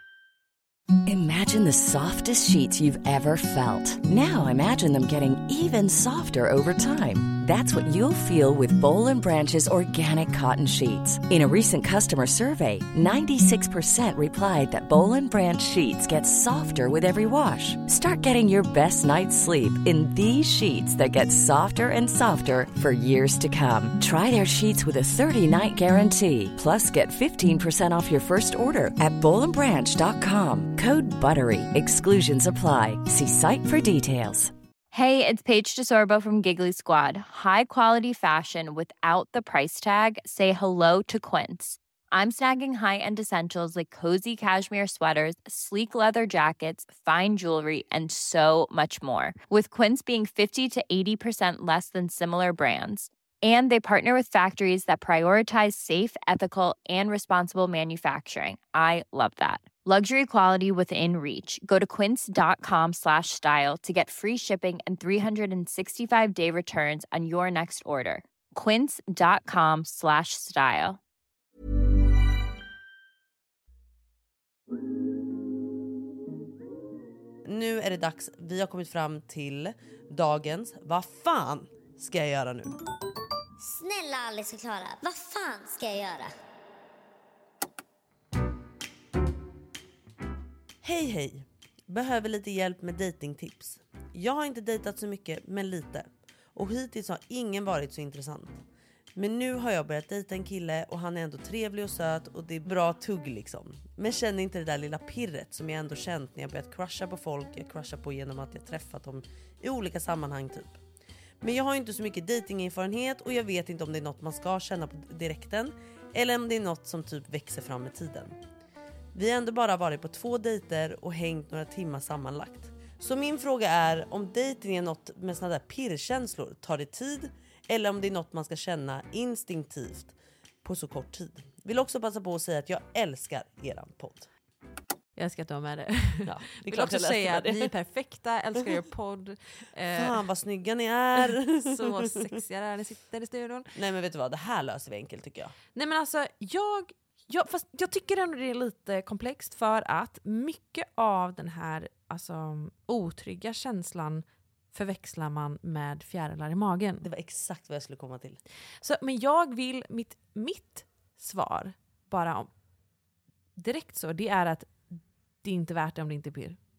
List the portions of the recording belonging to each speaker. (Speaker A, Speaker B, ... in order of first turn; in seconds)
Speaker A: 1.1-34.5
Speaker B: 34.9-71.0
Speaker C: 77.5-82.7, 90.8-98.6, 99.1-110.8, 111.4-118.3, 119.1-134.3, 136.2-137.7, 139.9-142.4, 143.7-145.5, 157.0-158.4
Speaker D: 83.6-86.3
Speaker E: 135.2-140.2, 141.2-143.7, 145.7-157.0, 158.8-162.5, 163.6-164.7, 165.4-166.6